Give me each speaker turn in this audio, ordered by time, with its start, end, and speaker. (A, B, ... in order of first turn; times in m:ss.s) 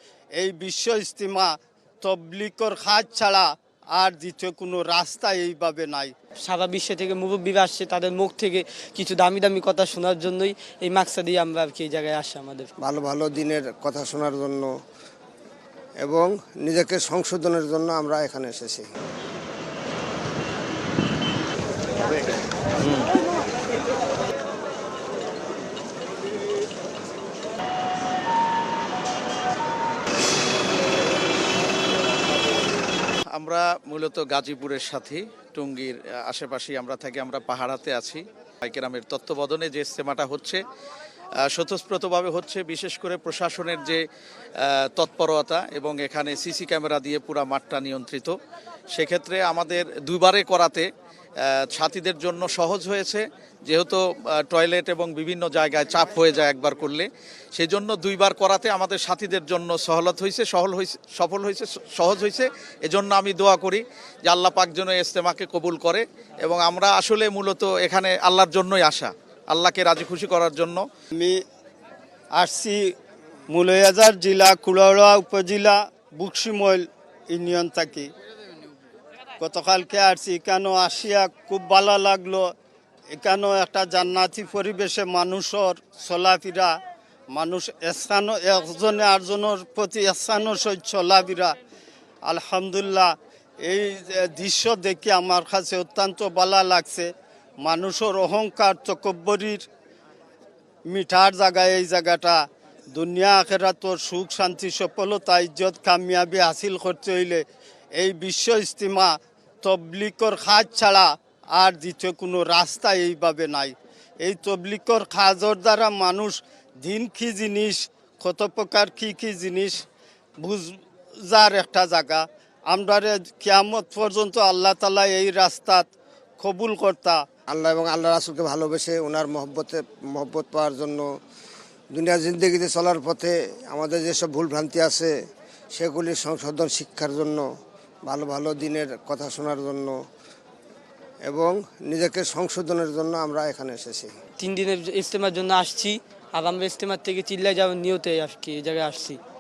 0:00.3-0:06.1 A
0:06.4-0:12.7 B
0:12.8-0:14.7 C
0:16.0-0:18.9 C
0:22.8-0:23.1 D
0:33.4-0:40.6 D
0:41.5-0:44.0 D
0:44.7-0:48.4 D
0:48.9-0:50.9 D
0:51.5-1:10.8 D
1:11.1-1:11.4 A
1:12.4-1:12.8 A
1:13.5-1:18.1 A
1:19.4-1:22.5 A
1:23.1-1:26.8 A
1:27.3-1:31.6 A
1:32.2-1:37.1 A
1:37.6-1:39.6 A
1:40.9-1:47.4 A
1:47.9-1:59.8 A
2:00.4-2:07.2 A
2:07.5-2:11.1 C
2:11.9-2:15.1 C
2:15.7-2:17.4 C
2:18.1-2:20.0 C
2:21.3-2:24.1 C
2:24.4-2:29.2 B